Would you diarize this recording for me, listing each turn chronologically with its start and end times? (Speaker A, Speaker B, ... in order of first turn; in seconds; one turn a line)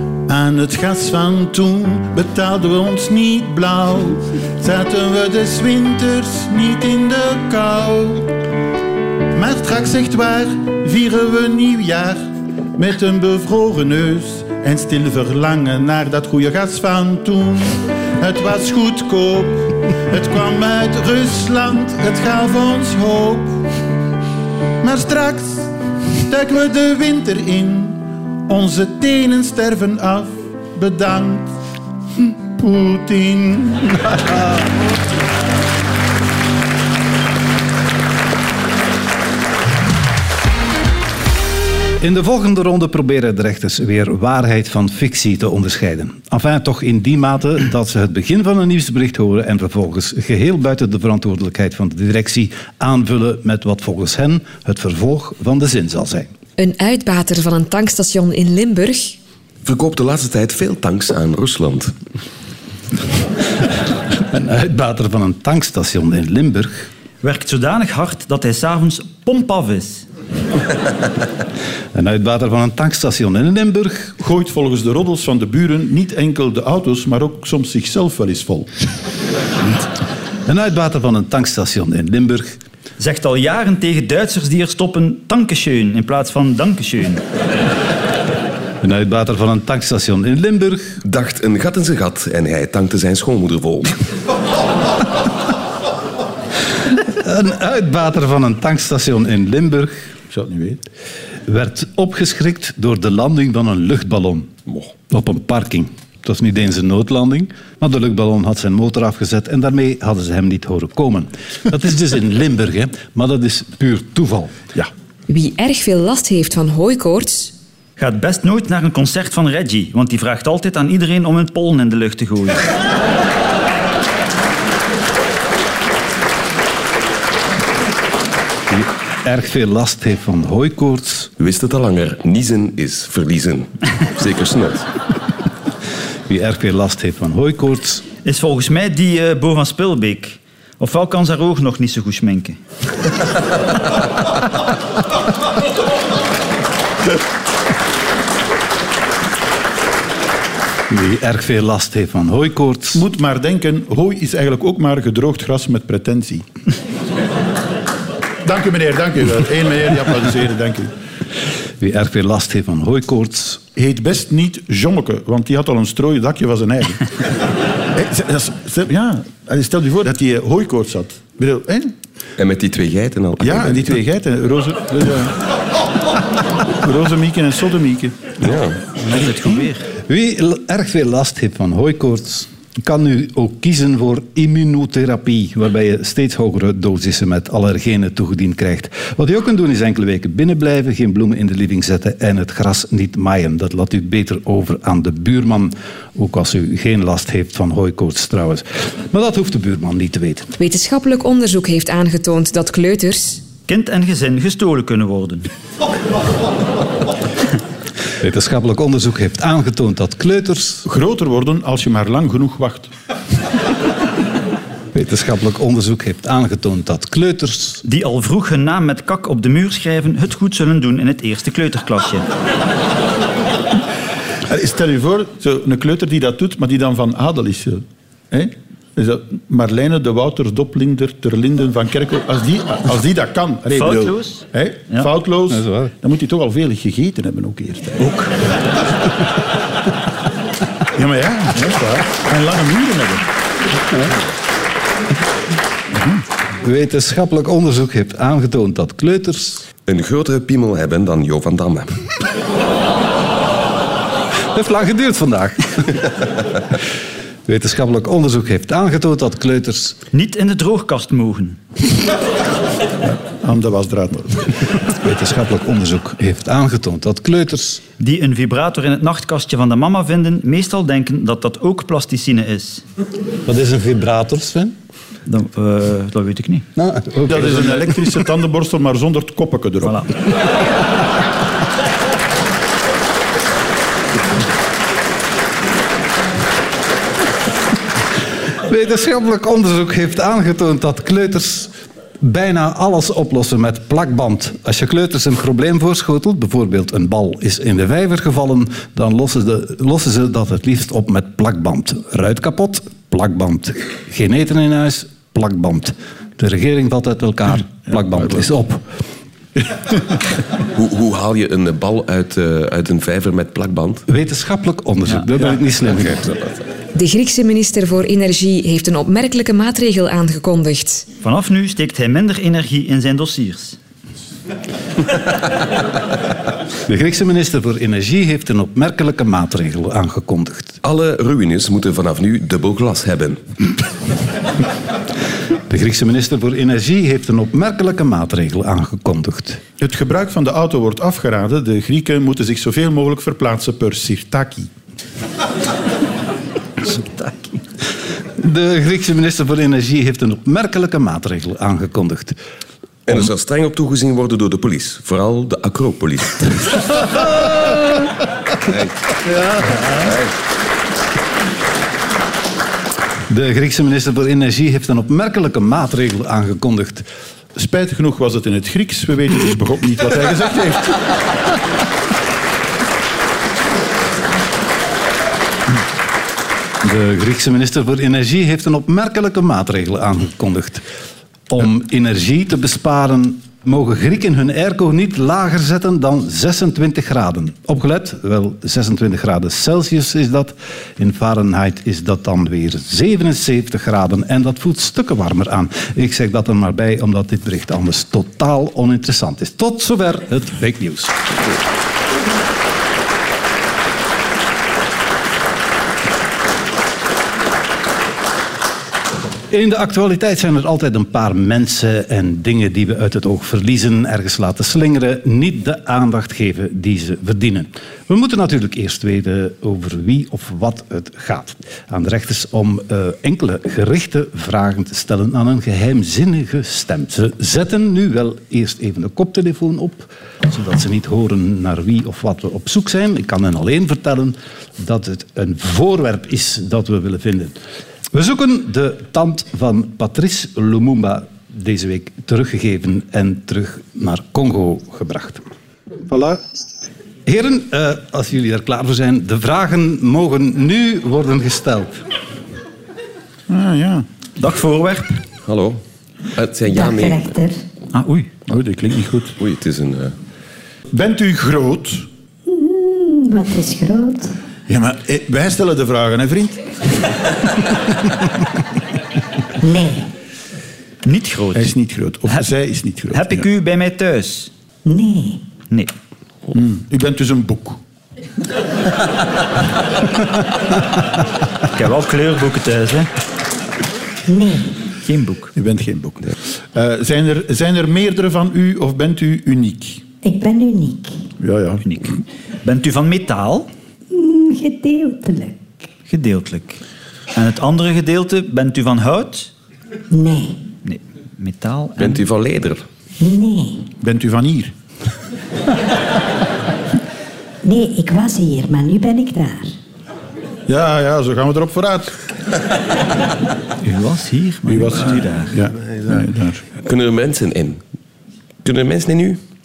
Speaker A: 0.3-8.3
Speaker A: 9.3-12.2
Speaker A: 12.8-23.6
Speaker A: 24.8-31.6
Speaker A: 32.2-34.3
Speaker B: 42.0-56.3
Speaker C: 56.6-59.2
Speaker D: 59.6-61.9
Speaker B: 64.2-66.9
Speaker E: 67.2-70.1
Speaker B: 72.0-74.2
Speaker A: 74.2-78.7
Speaker B: 80.5-82.6
Speaker E: 83.0-87.2
Speaker B: 88.8-91.0
Speaker D: 91.0-93.9
Speaker B: 97.1-100.0
Speaker A: 100.3-100.8
Speaker B: 101.5-104.5
Speaker B: 105.1-114.5
Speaker C: 115.3-117.5
Speaker E: 118.0-122.6
Speaker B: 128.7-131.3
Speaker D: 131.4-134.9
Speaker B: 136.3-138.0
Speaker E: 138.2-142.6
Speaker B: 150.9-153.0
Speaker A: 152.9-156.5
Speaker A: 158.4-160.9
Speaker B: 161.8-163.6
Speaker A: 163.8-167.1
Speaker A: 167.9-171.9
Speaker D: 172.4-174.0
Speaker A: 173.4-175.4
Speaker A: 176.7-178.3
Speaker D: 178.4-178.9
Speaker E: 179.0-179.9
Speaker B: 180.1-200.5
Speaker C: 200.6-203.4
Speaker E: 203.7-205.5
Speaker B: 208.2-210.9
Speaker A: 210.8-212.9
Speaker B: 214.9-217.8
Speaker E: 217.8-222.3
Speaker A: 224.5-238.1
Speaker E: 233.7-235.1
Speaker B: 235.5-235.9
Speaker A: 240.9-243.3
Speaker A: 245.9-246.2
Speaker B: 246.6-249.6
Speaker D: 249.9-252.1
Speaker B: 254.5-256.2
Speaker B: 257.5-260.0
Speaker E: 260.1-261.6
Speaker A: 263.1-264.6
Speaker B: 264.9-267.8
Speaker E: 268.0-272.8
Speaker B: 273.5-274.8
Speaker E: 275.3-276.7
Speaker B: 276.8-278.1
Speaker A: 277.3-280.1
Speaker E: 279.8-280.1
Speaker B: 288.7-308.9
Speaker A: 309.6-310.2
Speaker D: 310.7-314.0
Speaker B: 314.1-316.3
Speaker D: 316.0-316.6
Speaker C: 316.9-321.0
Speaker E: 321.2-323.8
Speaker B: 326.9-330.8
Speaker D: 330.8-333.4
Speaker B: 335.7-339.6
Speaker A: 339.8-344.7
Speaker E: 346.9-347.3
Speaker B: 348.4-352.4
Speaker D: 353.1-357.4
Speaker D: 358.6-358.9
Speaker B: 359.3-360.0
Speaker D: 360.0-360.3
Speaker B: 363.3-367.1
Speaker A: 367.6-371.1
Speaker B: 376.8-380.8
Speaker B: 381.5-401.2
Speaker B: 409.5-437.6
Speaker B: 438.1-445.5
Speaker B: 446.1-446.4
Speaker B: 447.3-451.9
Speaker A: 453.5-454.1
Speaker E: 454.4-455.2
Speaker D: 455.4-455.8
Speaker D: 456.3-457.4
Speaker F: 456.7-457.6
Speaker E: 457.9-458.3
Speaker A: 458.5-459.4
Speaker D: 459.4-460.2
Speaker A: 460.9-462.1
Speaker F: 462.5-464.4
Speaker A: 464.7-466.9
Speaker F: 469.6-470.1
Speaker E: 471.0-471.7
Speaker A: 471.6-473.5
Speaker E: 473.1-474.5
Speaker F: 474.9-475.4
Speaker A: 476.5-477.8
Speaker E: 481.7-483.1
Speaker F: 484.3-484.8
Speaker E: 485.1-485.5
Speaker A: 485.6-490.0
Speaker F: 490.2-491.2
Speaker A: 491.4-492.0
Speaker E: 491.8-493.7
Speaker F: 494.1-495.6
Speaker E: 496.1-496.8
Speaker E: 497.4-499.5
Speaker F: 500.1-500.6
Speaker E: 500.9-502.2
Speaker D: 502.0-502.9
Speaker F: 503.2-503.9
Speaker A: 504.0-504.7
Speaker F: 507.6-509.7
Speaker A: 510.7-512.2
Speaker E: 513.8-515.5
Speaker A: 514.6-516.6
Speaker D: 516.8-517.8
Speaker D: 518.6-519.4